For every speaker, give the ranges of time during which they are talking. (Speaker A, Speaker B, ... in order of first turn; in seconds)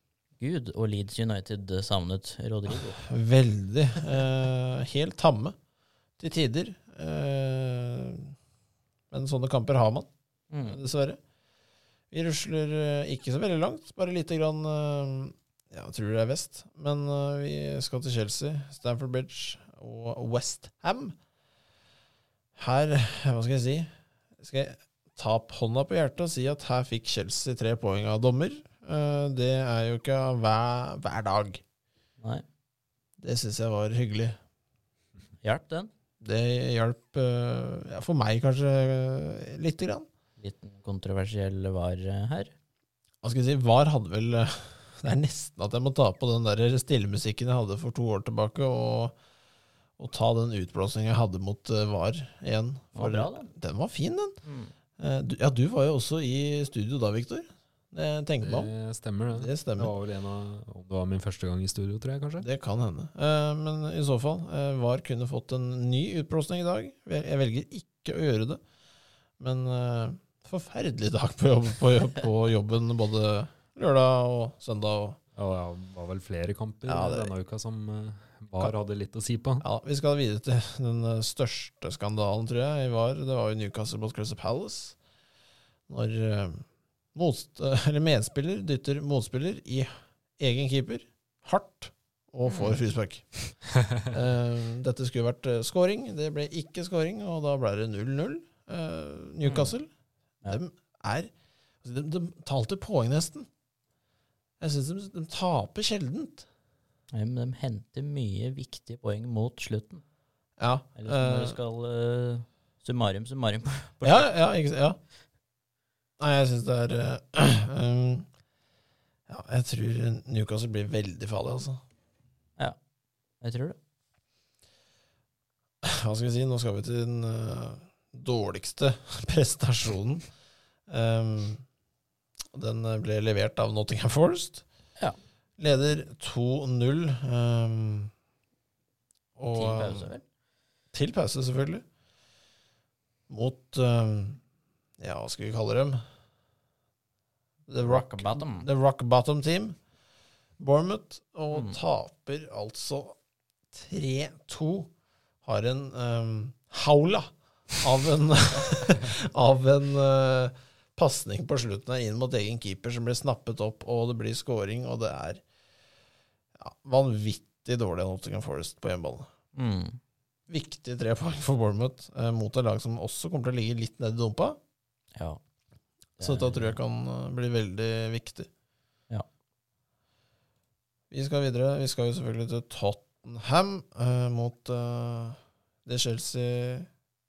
Speaker A: 0.4-3.0, 10.5-10.8, 32.2-32.5, 35.4-35.9, 40.4-42.5, 52.9-53.5, 54.4-54.7, 92.5-92.8, 99.4-99.8, 107.1-110.0, 111.0-114.3, 123.4-123.8, 139.5-140.2, 147.8-148.7, 151.5-151.8, 169.6-170.0, 176.2-176.8
Speaker B: 2.7-5.6, 6.2-8.3, 9.1-10.1, 10.7-11.2, 12.1-21.2, 22.6-31.6, 33.2-34.4, 36.2-40.1, 43.2-49.1, 50.0-54.4, 55.0-58.7, 59.4-59.9, 62.4-68.6, 69.4-75.2, 76.8-77.3, 79.6-85.0, 85.9-93.3, 94.1-99.9, 100.5-101.3, 101.8-103.5, 104.6-106.5, 110.6-111.6, 114.0-115.0, 116.2-118.3, 119.3-121.8, 125.8-130.2, 130.9-131.6, 132.5-134.6, 135.6-138.1, 139.4-140.1, 140.9-141.8, 143.3-144.4, 145.0-146.0, 147.7-149.8, 150.6-153.2, 153.7-154.9, 155.4-165.4, 166.6-169.3, 170.5-174.6, 176.2-178.5, 181.1-186.9
Speaker C: 58.4-62.5, 75.4-79.7